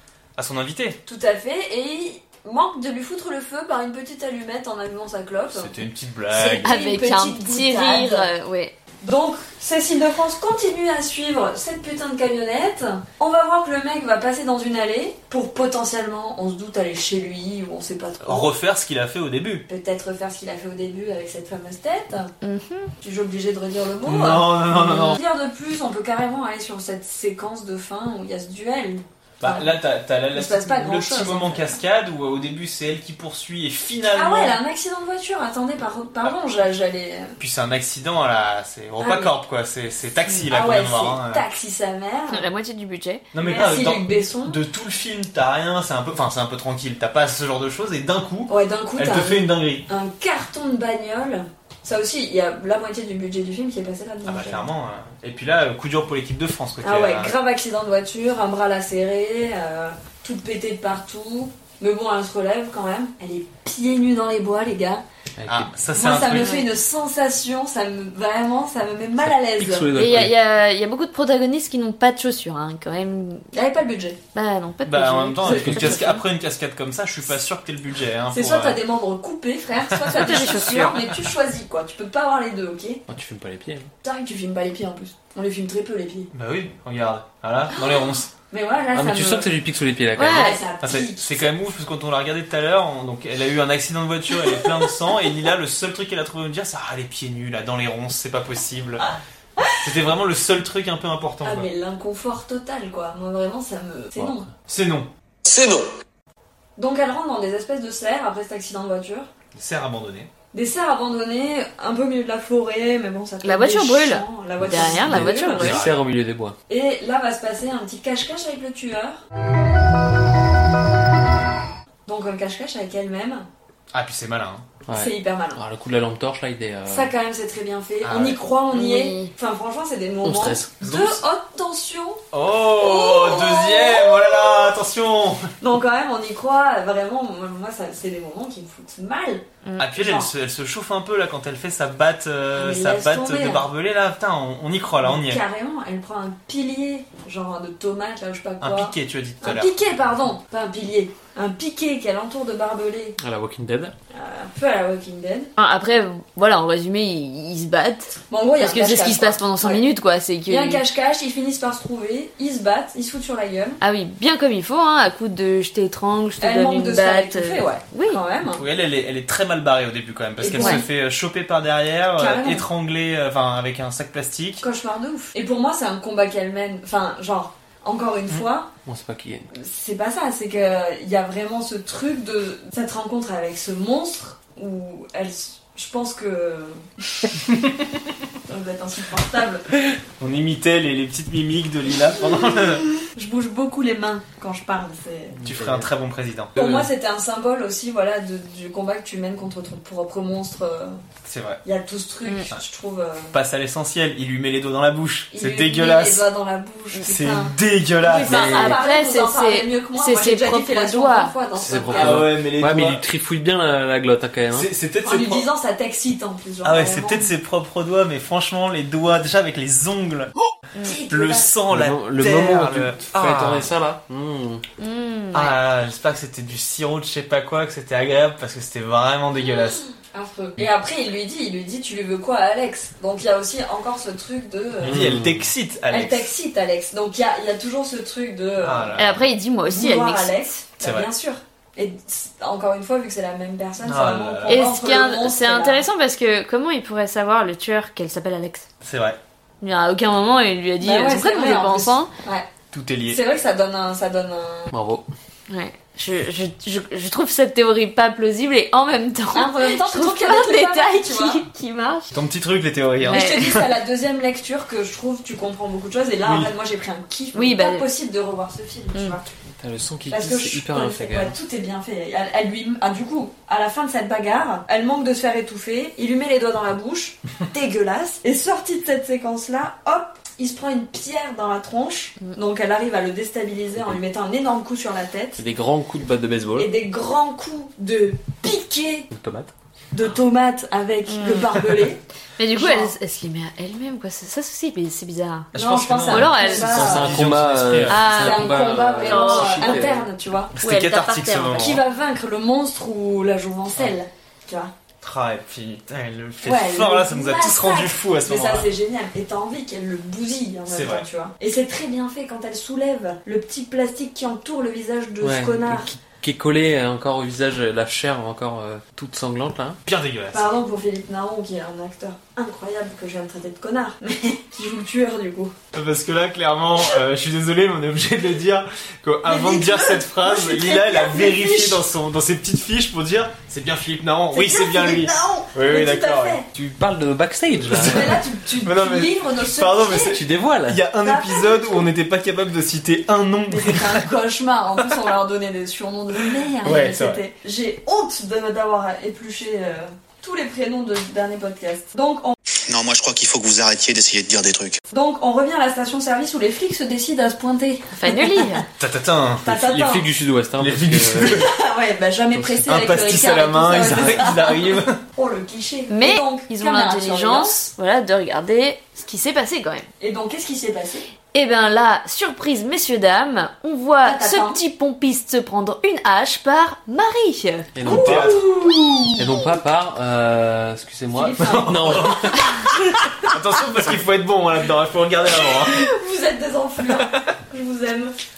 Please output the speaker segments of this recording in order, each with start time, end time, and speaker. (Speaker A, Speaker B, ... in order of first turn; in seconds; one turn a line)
Speaker A: 0.3-1.0
Speaker B: 1.1-5.7
Speaker A: 5.5-6.7
Speaker B: 6.3-8.3
Speaker C: 6.6-8.7
Speaker B: 9.0-18.5
Speaker A: 18.2-19.6
Speaker B: 19.7-22.3
Speaker C: 22.4-22.9
Speaker B: 23.0-29.8
Speaker A: 24.0-25.2
Speaker A: 29.4-34.6
Speaker B: 30.3-31.8
Speaker B: 34.1-37.3
Speaker A: 37.4-41.4
Speaker B: 39.0-39.3
Speaker B: 40.5-42.4
Speaker C: 42.3-43.2
Speaker A: 43.3-49.9
Speaker B: 43.4-44.6
Speaker B: 48.5-54.7
Speaker A: 54.2-57.4
Speaker B: 56.8-65.0
Speaker D: 65.4-65.7
Speaker A: 65.4-66.6
Speaker B: 65.9-69.9
Speaker C: 66.2-66.7
Speaker D: 69.2-70.3
Speaker C: 69.9-73.5
Speaker B: 73.5-74.2
Speaker C: 74.3-76.2
Speaker A: 74.8-78.8
Speaker D: 75.5-76.0
Speaker B: 75.5-76.0
Speaker B: 78.3-83.0
Speaker A: 79.9-80.9
Speaker C: 80.1-81.0
Speaker D: 83.1-83.9
Speaker B: 84.0-86.3
Speaker A: 86.3-88.3
Speaker B: 87.7-89.6
Speaker D: 88.9-90.6
Speaker C: 90.2-90.6
Speaker B: 90.2-91.5
Speaker A: 90.8-99.1
Speaker B: 99.0-99.8
Speaker A: 99.8-101.7
Speaker B: 101.4-104.5
Speaker A: 104.2-105.1
Speaker E: 105.5-105.8
Speaker B: 106.8-109.3
Speaker A: 109.5-110.3
Speaker B: 110.5-115.8
Speaker C: 113.4-115.8
Speaker D: 114.6-116.5
Speaker A: 115.6-116.0
Speaker B: 116.7-119.2
Speaker B: 122.0-123.5
Speaker A: 123.9-124.7
Speaker D: 124.9-127.1
Speaker B: 124.9-125.6
Speaker B: 126.9-134.7
Speaker A: 128.0-128.4
Speaker C: 128.7-129.3
Speaker D: 130.2-130.7
Speaker A: 130.8-131.2
Speaker A: 132.3-135.5
Speaker B: 135.6-140.3
Speaker A: 139.8-145.4
Speaker B: 142.5-143.7
Speaker B: 145.0-153.2
Speaker A: 148.6-149.7
Speaker D: 153.2-153.9
Speaker B: 154.1-155.5
Speaker C: 155.6-160.8
Speaker B: 158.3-159.8
Speaker B: 160.5-163.8
Speaker C: 163.8-168.2
Speaker B: 166.4-168.6
Speaker A: 168.5-174.6
Speaker B: 170.4-170.8
Speaker C: 170.6-170.8
Speaker B: 172.2-172.7
Speaker B: 174.6-178.7
Speaker D: 178.8-179.5
Speaker B: 179.5-187.3
Speaker B: 188.4-189.7
Speaker A: 190.2-192.9
Speaker B: 193.0-195.4
Speaker D: 195.4-195.9
Speaker A: 195.4-196.9
Speaker B: 196.6-201.0
Speaker A: 201.2-201.6
Speaker B: 201.6-203.3
Speaker A: 203.3-206.3
Speaker B: 205.3-212.2
Speaker A: 207.0-208.7
Speaker C: 208.1-211.3
Speaker D: 208.2-208.8
Speaker D: 211.6-214.7
Speaker A: 211.9-213.0
Speaker A: 214.5-215.5
Speaker B: 215.0-217.3
Speaker A: 216.6-220.3
Speaker B: 220.8-221.5
Speaker A: 221.1-223.7
Speaker D: 221.7-224.6
Speaker C: 224.8-225.6
Speaker A: 225.3-229.8
Speaker B: 230.1-235.1
Speaker D: 234.8-235.5
Speaker A: 234.8-236.3
Speaker B: 235.9-238.9
Speaker A: 238.6-239.2
Speaker C: 239.0-240.3
Speaker B: 239.7-245.8
Speaker A: 240.8-241.1
Speaker A: 243.8-244.6
Speaker C: 244.5-248.7
Speaker A: 248.8-249.2
Speaker C: 249.6-252.1
Speaker B: 250.8-252.5
Speaker A: 252.7-253.2
Speaker B: 253.1-254.7
Speaker D: 254.7-255.1
Speaker C: 255.5-262.1
Speaker B: 259.3-261.4
Speaker A: 262.1-263.6
Speaker C: 263.1-263.6
Speaker B: 263.1-269.2
Speaker A: 266.2-266.5
Speaker C: 267.3-267.9
Speaker D: 269.6-271.4
Speaker B: 270.1-285.4
Speaker D: 285.4-286.7
Speaker B: 286.6-289.1
Speaker D: 289.1-289.5
Speaker B: 289.9-292.0
Speaker C: 291.1-291.7
Speaker C: 292.4-295.5
Speaker B: 292.5-292.9
Speaker A: 295.5-298.1
Speaker B: 295.5-297.2
Speaker C: 296.1-296.9
Speaker D: 296.5-300.1
Speaker C: 297.9-299.9
Speaker B: 298.1-300.5
Speaker A: 300.6-301.8
Speaker C: 300.6-301.8
Speaker B: 301.5-304.7
Speaker A: 305.0-308.7
Speaker B: 306.4-315.9
Speaker A: 310.7-311.1
Speaker D: 315.2-319.8
Speaker A: 319.8-320.5
Speaker B: 320.3-325.5
Speaker A: 325.7-336.4
Speaker B: 329.2-331.8
Speaker B: 334.3-336.5
Speaker D: 336.5-338.2
Speaker A: 337.7-344.0
Speaker B: 337.7-340.2
Speaker D: 340.1-340.8
Speaker B: 341.0-341.8
Speaker B: 343.5-352.4
Speaker A: 346.6-347.2
Speaker E: 352.7-354.8
Speaker B: 354.9-358.6
Speaker C: 357.9-358.6
Speaker A: 358.8-359.6
Speaker B: 359.4-360.1
Speaker D: 359.5-361.5
Speaker A: 360.6-361.5
Speaker B: 361.3-367.6
Speaker A: 362.6-365.0
Speaker C: 365.9-369.9
Speaker B: 370.0-371.1
Speaker C: 371.3-377.7
Speaker B: 374.0-374.6
Speaker D: 377.7-378.4
Speaker B: 377.8-379.2
Speaker A: 377.9-378.5
Speaker D: 379.1-382.5
Speaker B: 381.1-383.3
Speaker A: 381.4-382.6
Speaker A: 383.2-385.9
Speaker B: 385.6-388.1